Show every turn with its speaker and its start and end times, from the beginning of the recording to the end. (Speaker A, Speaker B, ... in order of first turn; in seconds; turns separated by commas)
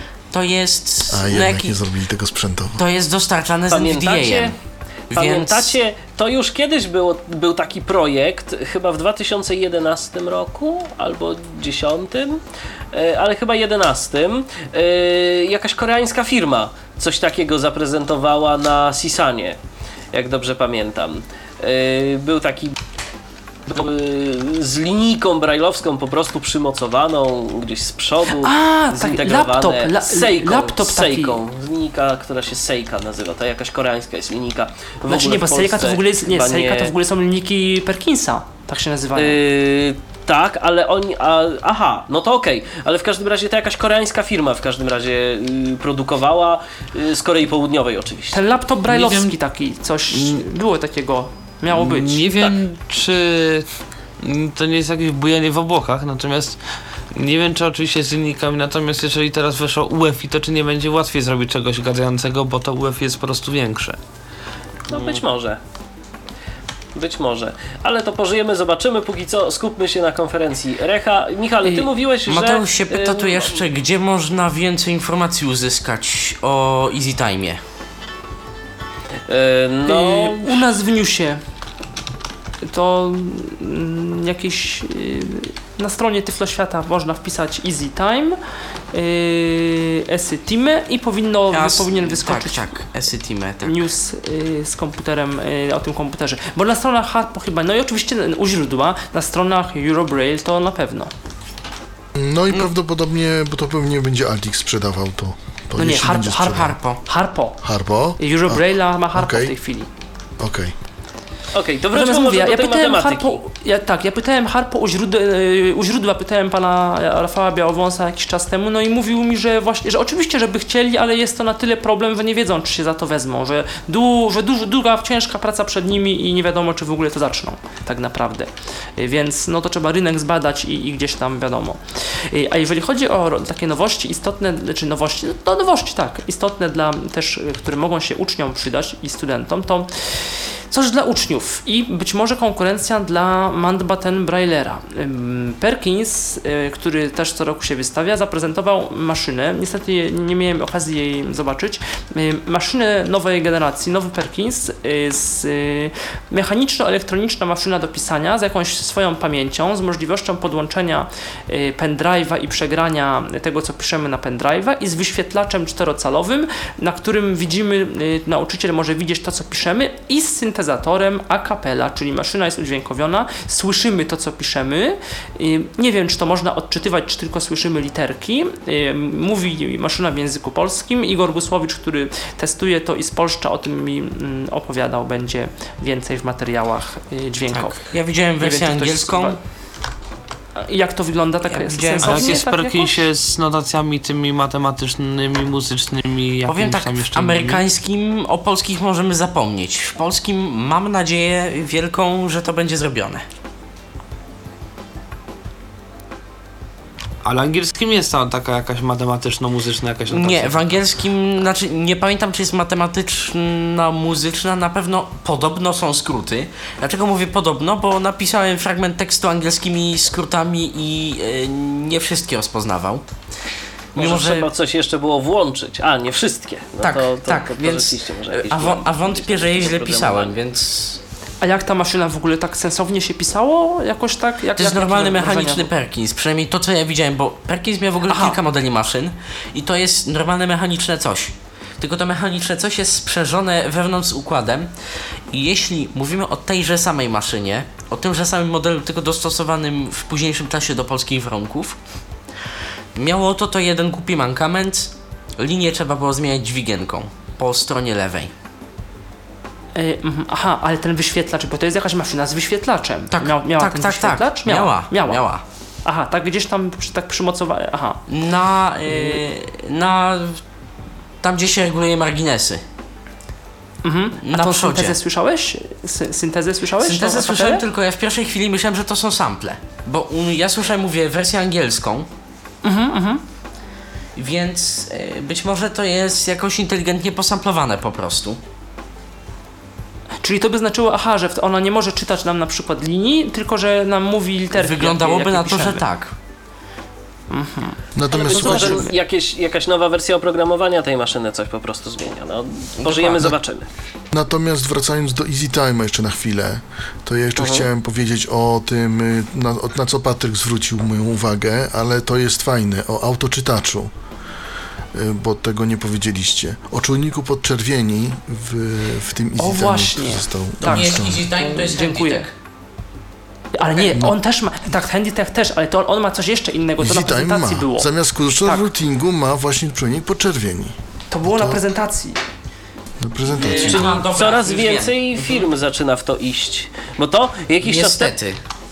Speaker A: 0.3-1.8, Speaker B: 1.1-2.8, Speaker A: 2.8-4.5, Speaker C: 3.7-4.5, Speaker A: 5.1-5.7, Speaker C: 5.1-12.4, Speaker C: 12.9-19.6, Speaker C: 20.1-22.8, Speaker C: 23.7-36.9, Speaker D: 28.4-31.4, Speaker D: 35.1-39.4, Speaker C: 39.1-48.4, Speaker D: 48.3-52.5, Speaker E: 48.9-49.4, Speaker E: 50.1-50.4, Speaker E: 51.7-53.7, Speaker E: 54.2-56.6, Speaker E: 57.1-64.0, Speaker C: 64.9-65.6, Speaker A: 64.9-65.2, Speaker C: 67.0-73.6, Speaker A: 72.3-77.6, Speaker C: 79.3-80.6, Speaker D: 79.9-81.4, Speaker D: 82.6-88.4, Speaker D: 88.9-92.7, Speaker A: 91.5-93.8, Speaker D: 93.7-101.1, Speaker B: 102.2-106.8, Speaker D: 105.8-107.6, Speaker A: 106.4-107.0, Speaker B: 107.6-109.6, Speaker D: 108.2-109.9, Speaker B: 110.4-110.8, Speaker C: 111.5-113.4, Speaker D: 111.9-187.9, Speaker A: 187.5-189.4, Speaker D: 188.4-189.4, Speaker D: 190.6-193.0, Speaker A: 191.5-192.4, Speaker E: 192.0-197.7, Speaker A: 196.5-203.2, Speaker E: 207.2-210.8, Speaker A: 210.1-223.1, Speaker A: 223.9-224.5, Speaker C: 224.0-230.3, Speaker A: 226.8-231.0, Speaker D: 231.4-235.7, Speaker A: 234.6-244.7, Speaker D: 238.1-238.4, Speaker A: 245.3-251.8, Speaker A: 252.9-258.3, Speaker D: 259.8-265.2, Speaker A: 263.1-265.4, Speaker D: 265.9-268.0, Speaker A: 268.1-270.4, Speaker D: 268.9-269.2, Speaker A: 271.2-272.6, Speaker D: 273.8-277.6, Speaker A: 274.2-275.0, Speaker A: 276.8-282.1, Speaker D: 282.6-283.2, Speaker A: 284.2-288.4, Speaker D: 290.2-295.9, Speaker A: 294.5-296.1, Speaker D: 297.3-298.9, Speaker B: 297.9-298.9, Speaker C: 298.1-303.7, Speaker A: 302.8-303.4, Speaker B: 304.1-313.9, Speaker C: 307.4-307.6, Speaker B: 314.9-321.3, Speaker D: 319.4-322.3, Speaker A: 320.6-322.3, Speaker D: 323.6-328.7, Speaker B: 323.8-324.1, Speaker B: 326.8-331.6, Speaker D: 331.1-332.2, Speaker B: 333.0-334.0, Speaker A: 333.3-335.5, Speaker C: 333.4-338.1, Speaker A: 337.6-338.4